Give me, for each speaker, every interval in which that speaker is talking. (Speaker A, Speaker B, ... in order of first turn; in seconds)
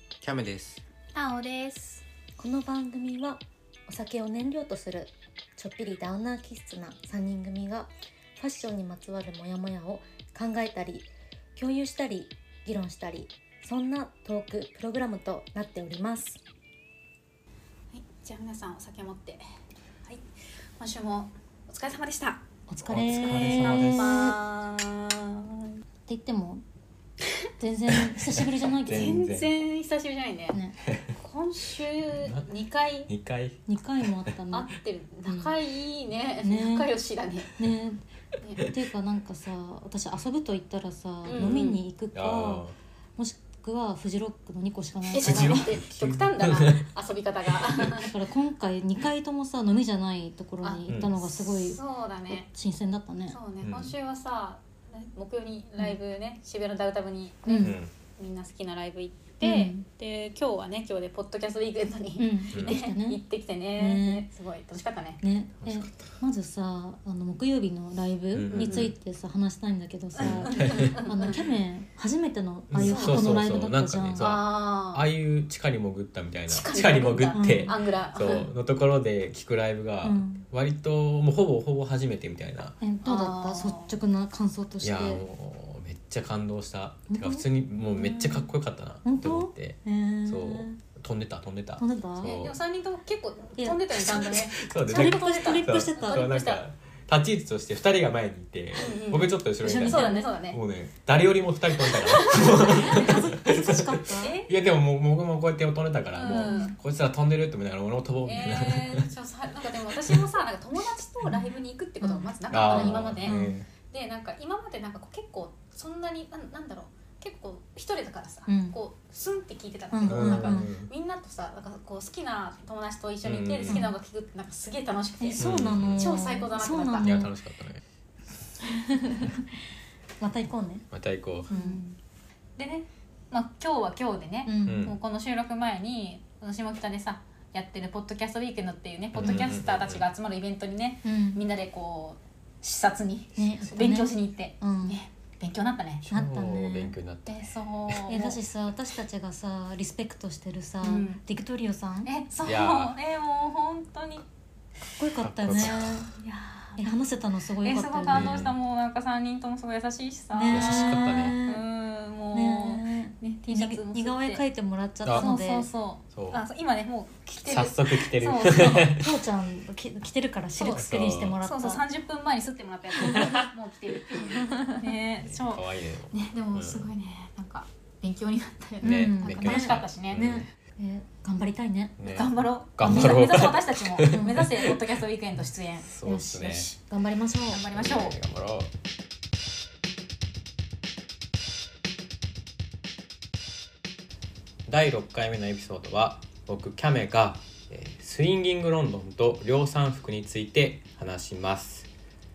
Speaker A: 0.2-0.8, 22.9-24.2, 27.9-29.5, 30.9-31.1, 32.2-32.5, 33.1-34.1, 41.3-42.7, 45.2-46.8, 50.9-51.2, 53.6-53.9, 57.6-57.9, 65.6-66.1, 68.3-68.9, 70.2-71.0, 72.7-82.8, 84.8-92.5, 93.9-109.1, 109.9-110.2, 112.5-113.7, 120.0-120.9, 123.2-123.9, 125.4-126.1, 127.0-127.8, 130.9-131.5, 134.6-135.0, 139.1-140.0, 146.0-148.2, 152.4-152.9, 155.2-156.1, 158.1-158.5, 160.5-161.4, 165.0-165.3, 166.1-166.4, 167.4-169.1, 170.7-171.4, 173.0-173.5, 175.2-176.9, 178.8-180.4, 182.0-184.8, 185.8-186.7, 187.7-188.7, 194.7-201.9
Speaker B: 1.1-2.0, 17.9-19.4, 20.8-22.4, 23.2-25.8, 28.9-30.6, 31.1-33.1, 34.5-37.5, 41.2-41.8, 45.1-48.1, 50.6-52.5, 53.3-65.2, 68.5-68.9, 70.2-71.4, 72.8-73.4, 74.2-75.1, 76.5-78.5, 83.0-83.9, 92.2-96.6, 98.8-100.6, 101.8-103.1, 104.2-104.5, 106.1-106.7, 108.2-127.1, 131.5-131.8, 132.6-146.0, 147.3-148.4, 150.8-151.2, 152.0-154.2, 155.7-157.1, 157.6-164.4, 165.2-168.9, 170.6-170.8, 171.4-180.2, 182.1-185.9, 187.5-188.2
Speaker C: 2.4-16.4, 22.7-24.4, 26.1-26.6, 27.6-29.2, 30.5-30.8, 33.7-34.7, 35.2-35.5, 36.4-36.9, 37.6-38.0, 38.6-45.6, 47.8-53.4, 57.5-57.8, 59.4-59.8, 62.2-63.2, 63.8-64.2, 65.2-74.3, 77.3-77.8, 80.0-80.4, 82.8-85.2, 87.1-88.5, 89.0-90.8, 91.8-92.4, 93.6-94.3, 94.8-96.3, 99.6-100.3, 102.3-104.3, 106.4-106.7, 111.2-113.5, 118.5-118.7, 119.9-120.7, 125.2-127.3, 128.6-129.6, 130.2-130.9, 131.5-131.9, 134.4-134.8, 141.0-141.4, 143.3-145.0, 146.1-146.9, 148.1-152.1, 154.9-156.1, 156.8-158.4, 160.3-161.6, 162.3-165.7, 168.5-171.8, 173.0-173.4, 174.3-174.8, 178.8-182.0, 182.8-183.2, 184.1-184.5, 186.0-187.7